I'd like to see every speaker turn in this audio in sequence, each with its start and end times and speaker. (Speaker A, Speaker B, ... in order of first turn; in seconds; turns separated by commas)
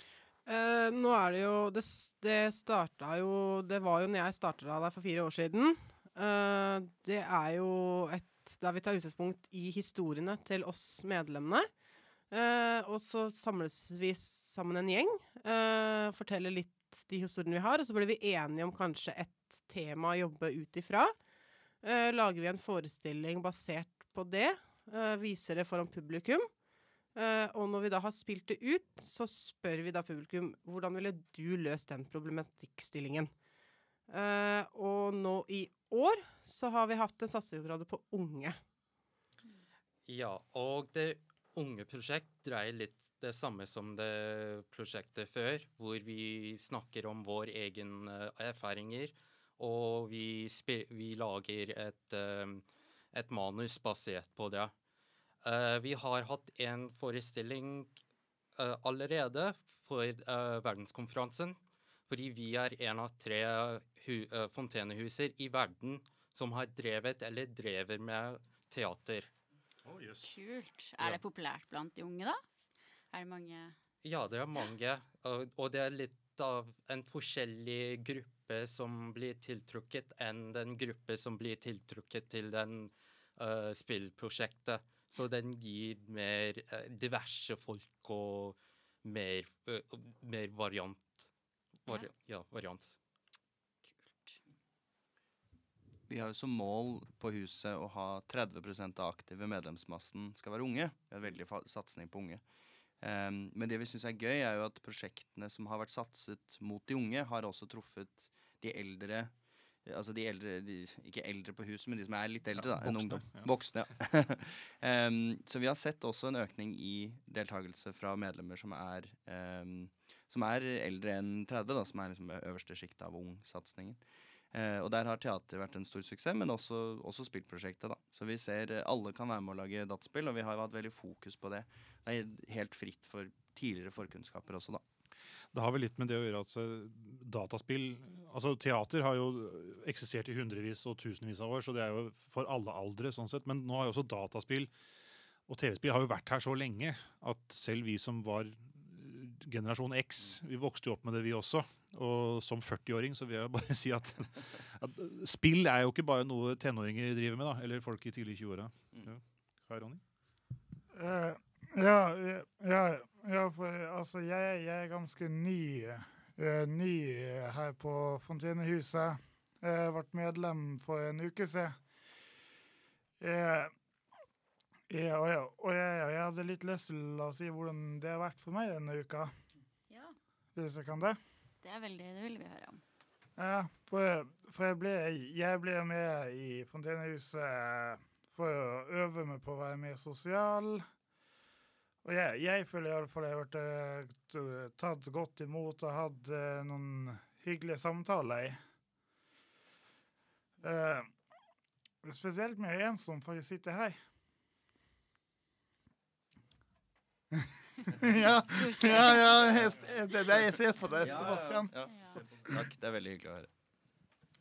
Speaker A: 0.5-11.7, Speaker A: 12.3-21.1, Speaker A: 21.8-26.5, Speaker A: 27.1-33.3, Speaker A: 34.1-38.5, Speaker B: 40.0-54.7, Speaker B: 55.4-58.0, Speaker B: 58.5-61.6, Speaker B: 62.1-69.3, Speaker C: 69.8-70.3, Speaker D: 70.2-72.4, Speaker D: 73.1-73.7, Speaker B: 74.0-91.3, Speaker B: 91.8-93.0, Speaker D: 94.0-94.4, Speaker E: 96.1-102.4, Speaker E: 103.0-109.3, Speaker E: 109.8-124.0, Speaker C: 112.6-113.5, Speaker E: 124.5-134.8, Speaker C: 135.5-144.7, Speaker C: 145.5-160.0, Speaker F: 160.9-171.7, Speaker F: 173.2-173.7, Speaker F: 174.9-179.3, Speaker F: 180.6-181.2, Speaker D: 181.6-182.8, Speaker F: 183.4-190.8, Speaker F: 192.0-198.6, Speaker F: 200.6-201.1, Speaker F: 202.0-203.9, Speaker F: 207.9-211.7, Speaker D: 208.5-209.3, Speaker E: 211.0-213.5, Speaker D: 211.8-212.2